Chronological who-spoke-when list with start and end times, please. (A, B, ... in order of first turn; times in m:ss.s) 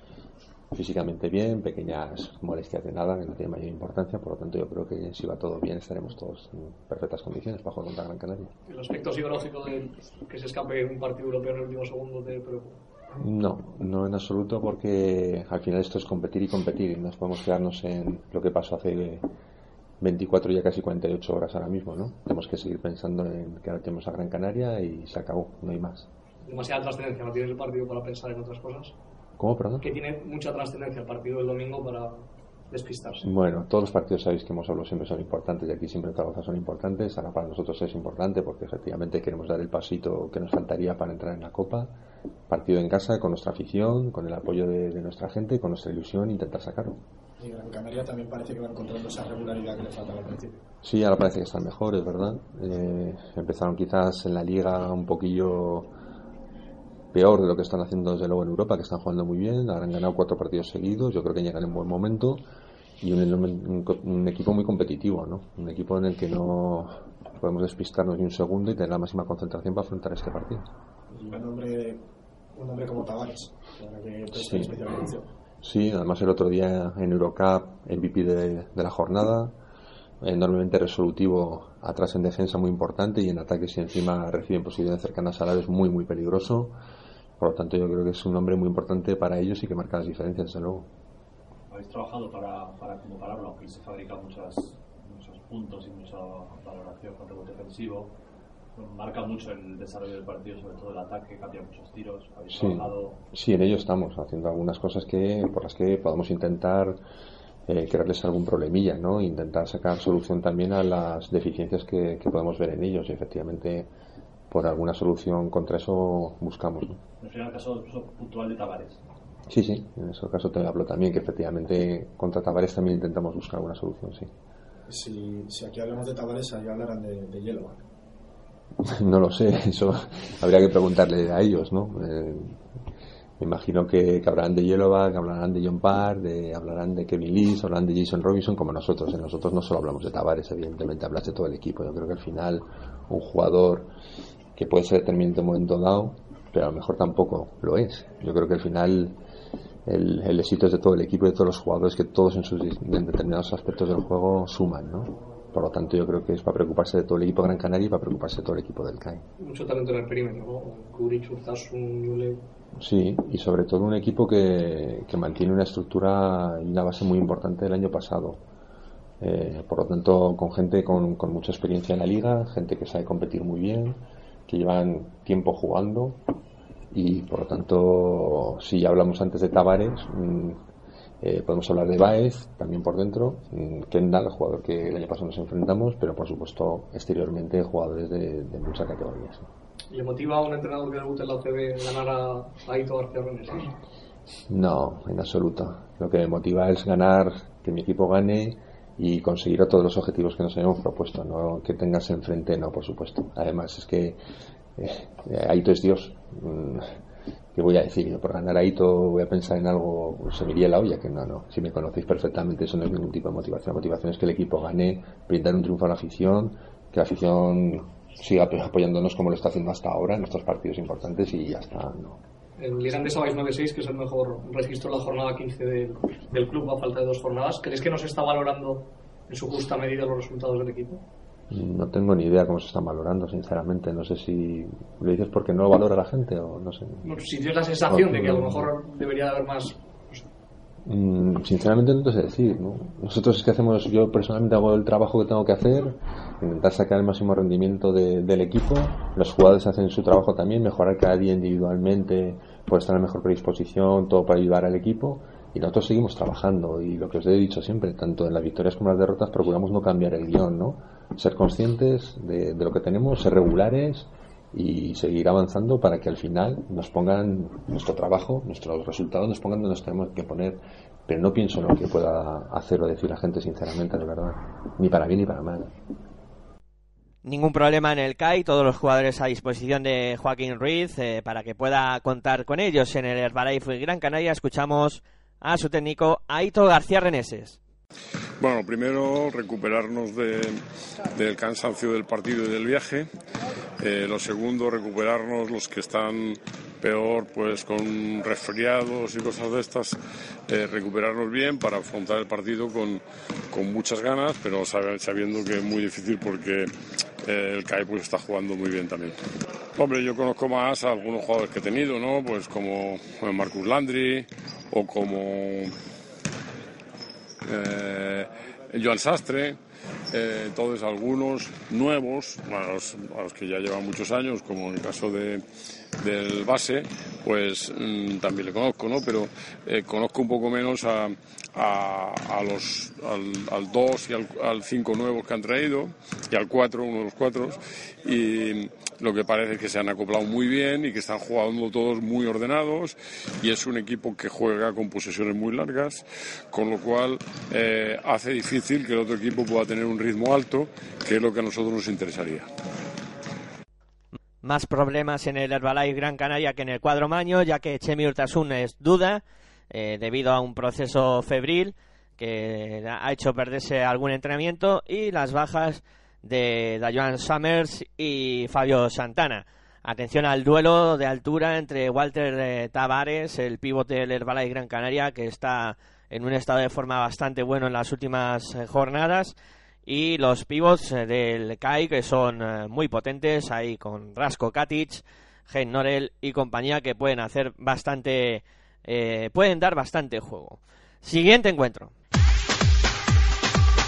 0:00.7-0:08.5 A
0:08.6-0:12.8 B
0:13.2-0:19.2 A
0:20.0-0:26.1 A
0:26.4-0:28.9 B
0:29.4-0:29.9 A
0:29.8-0:33.3 B
0:33.2-0:41.9 A
0:42.5-0:47.0 A
0:47.4-0:50.6 C
0:50.8-0:55.9 A
0:57.1-1:02.4 A
1:03.0-1:10.7 A
1:11.1-1:12.0 C
1:12.5-1:15.2 C
1:14.3-1:14.9 A
1:15.6-1:19.5 A
1:20.2-1:26.7 A
1:27.4-1:30.9 A
1:31.7-1:38.1 D
1:38.8-1:43.2 D
1:42.5-1:47.0 A
1:47.7-1:53.9 A
1:54.5-1:57.0 A
1:57.2-1:59.0 D
1:59.5-2:04.3 A
2:04.9-2:07.8 C
2:08.8-2:12.6 A
2:13.4-2:23.9 A
2:24.6-2:29.2 A
2:29.8-2:39.2 A
2:39.4-2:42.4 B
2:42.8-2:48.4 A
2:49.2-2:56.2 A
2:56.9-3:00.6 A
3:01.2-3:09.5 A
3:09.9-3:13.7 B
3:14.5-3:24.2 A
3:24.8-3:26.9 A
3:27.5-3:42.2 A
3:42.6-3:51.0 B
3:51.5-3:57.1 A
3:57.0-4:00.2 B
3:57.9-3:58.7 A
4:00.8-4:35.7 A
4:37.2-4:47.6 E
4:48.4-4:50.6 F
4:51.1-4:53.1 F
4:53.8-5:00.0 F
5:00.5-5:06.7 F
5:07.2-5:09.2 F
5:09.8-5:15.7 F
5:17.4-5:19.6 F
5:20.1-5:25.4 F
5:26.0-5:52.5 F
5:54.4-6:31.9 E